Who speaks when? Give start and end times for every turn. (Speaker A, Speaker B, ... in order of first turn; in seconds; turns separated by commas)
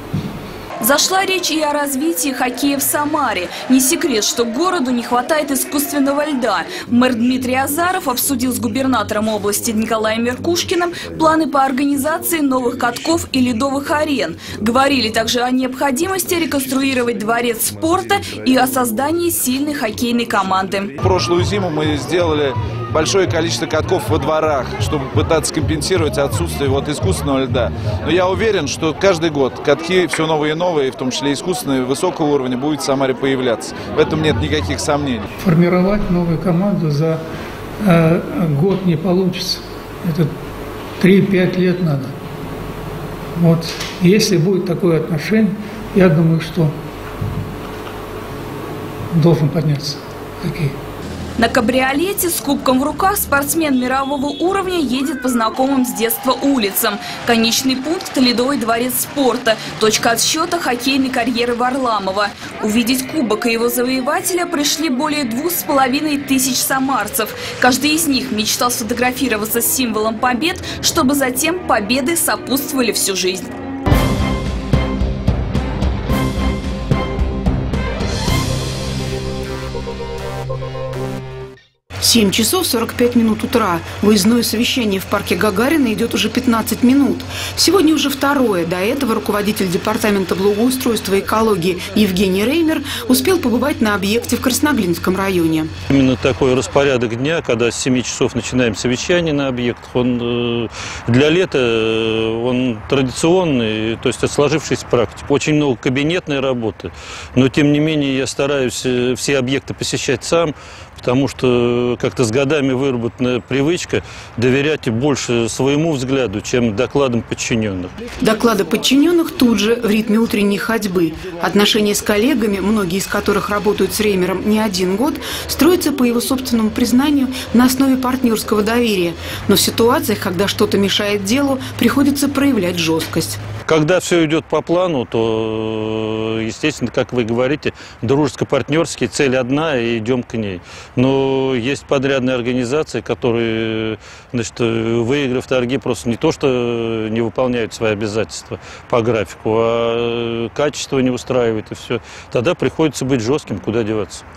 Speaker A: 0.8-20.9, Speaker B: 21.0-35.2, Speaker C: 35.4-37.2, Speaker C: 37.8-40.3, Speaker C: 41.0-42.1, Speaker C: 43.4-46.8, Speaker C: 49.1-50.8, Speaker A: 51.4-73.5, Speaker D: 82.0-95.7, Speaker E: 95.9-117.9, Speaker D: 118.2-133.4, Speaker E: 133.7-154.2